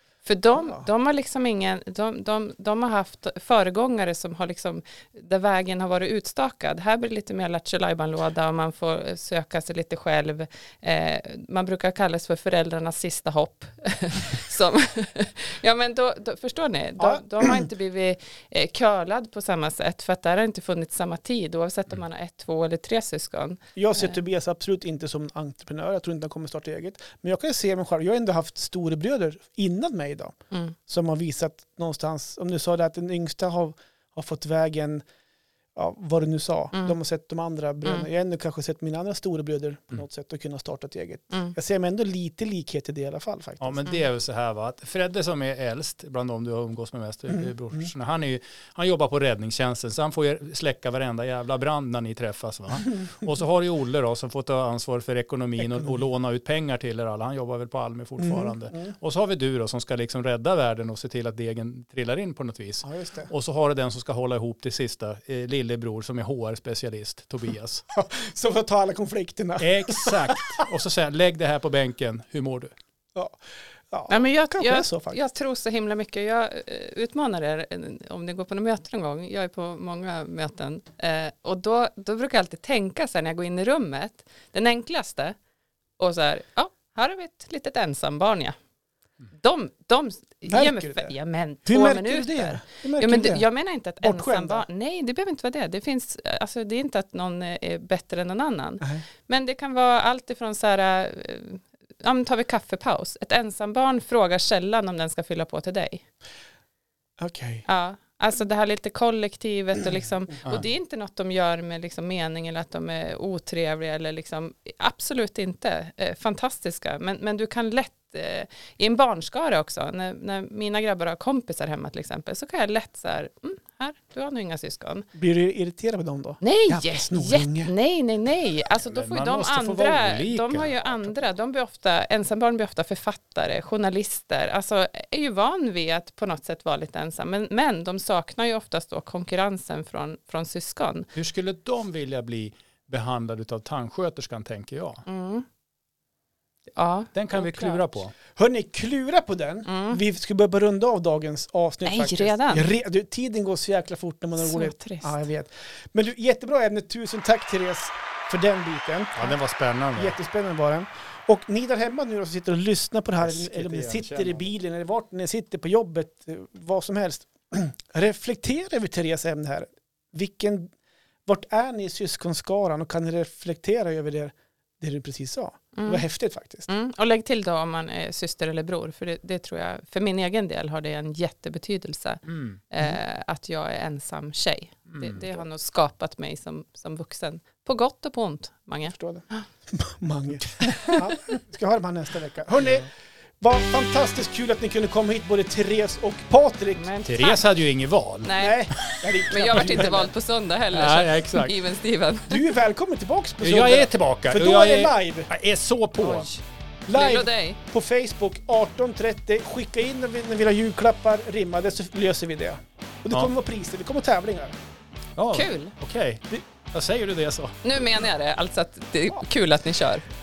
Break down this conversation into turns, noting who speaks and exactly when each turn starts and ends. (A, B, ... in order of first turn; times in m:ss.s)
0:00.2-0:24.2 A
0:00.6-0:00.9 B
0:17.0-0:17.6 B
0:23.8-0:30.4 B
0:30.9-0:35.0 B
0:35.8-0:43.8 B
0:43.6-1:07.8 C
0:58.2-0:58.9 B
1:02.8-1:03.3 B
1:07.9-1:10.6 B
1:09.6-1:12.7 C
1:13.9-1:15.2 B
1:14.1-1:25.4 A
1:26.0-1:28.6 A
1:29.4-1:46.0 A
1:30.5-1:31.1 B
1:31.7-1:33.5 B
1:34.0-1:34.6 B
1:47.2-1:47.6 B
1:47.7-2:05.1 A
2:05.2-2:07.7 B
2:06.4-2:21.1 A
2:08.9-2:10.8 C
2:21.2-2:25.0 C
2:25.1-2:25.5 A
2:26.8-2:27.8 A
2:27.1-2:28.1 C
2:28.4-2:39.3 B
2:29.7-2:30.0 A
2:31.8-2:32.7 A
2:34.4-2:35.3 A
2:39.2-2:40.2 C
2:40.0-2:50.7 B
2:43.2-2:44.5 C
2:51.3-2:56.7 B
2:55.8-2:56.1 A
2:56.7-3:09.5 A
3:02.3-3:02.6 C
3:04.9-3:05.2 C
3:08.9-3:16.9 B
3:10.6-3:11.2 A
3:16.8-3:17.4 A
3:17.1-3:18.3 C
3:18.2-3:18.6 A
3:18.3-3:20.1 B
3:19.3-3:22.4 A
3:20.7-3:21.6 C
3:22.3-3:25.3 B
3:23.4-3:26.3 C
3:26.0-3:27.6 A
3:26.9-3:34.6 B
3:35.2-3:37.6 C
3:35.3-3:35.7 A
3:37.6-3:40.0 A